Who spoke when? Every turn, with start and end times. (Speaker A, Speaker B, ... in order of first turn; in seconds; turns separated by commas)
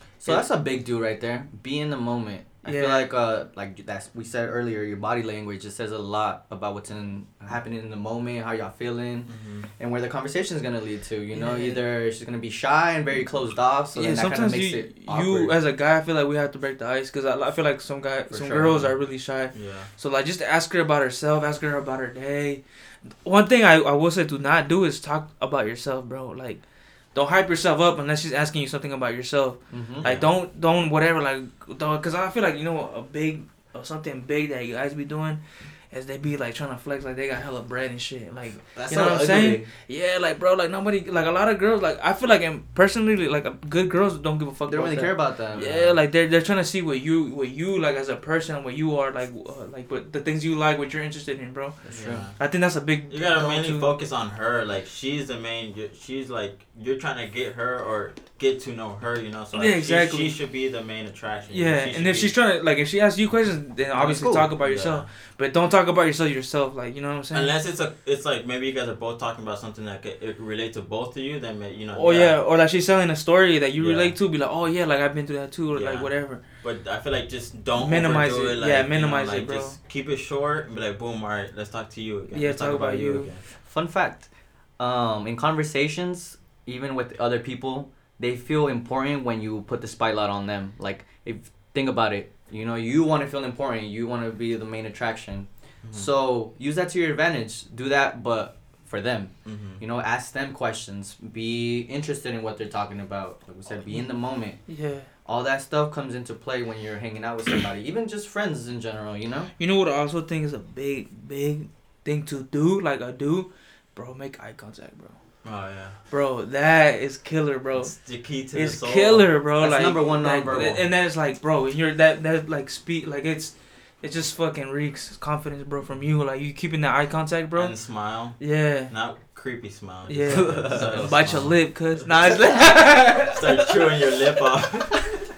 Speaker A: 0.2-15.5, Speaker B: 2.6-3.1, Speaker C: 9.3-9.7, Speaker B: 11.3-11.8, Speaker B: 13.9-22.6, Speaker A: 18.3-18.9, Speaker C: 19.5-19.9, Speaker B: 23.2-26.6, Speaker B: 27.1-35.4, Speaker A: 29.7-30.1, Speaker C: 30.0-30.3, Speaker B: 35.9-51.8, Speaker A: 38.6-39.7, Speaker A: 44.7-45.9, Speaker A: 51.8-52.2, Speaker C: 51.9-52.4, Speaker B: 52.4-53.9, Speaker C: 53.1-62.4, Speaker B: 59.5-60.4, Speaker B: 61.5-67.5, Speaker A: 63.9-64.5, Speaker C: 64.6-65.0, Speaker C: 67.3-72.4, Speaker B: 71.9-76.4, Speaker C: 73.8-74.1, Speaker C: 75.7-76.1, Speaker C: 76.6-83.4, Speaker B: 77.8-79.8, Speaker B: 82.3-83.3, Speaker A: 83.6-104.6, Speaker C: 95.8-96.1, Speaker C: 99.5-99.8, Speaker B: 104.7-105.1, Speaker A: 105.2-109.5, Speaker B: 109.6-115.2, Speaker C: 115.4-116.0, Speaker B: 116.1-117.9, Speaker C: 117.8-119.3, Speaker B: 118.5-127.7, Speaker A: 119.6-120.8, Speaker C: 127.5-132.1, Speaker B: 128.4-128.9, Speaker B: 130.1-133.7, Speaker A: 130.3-131.2, Speaker C: 133.0-135.0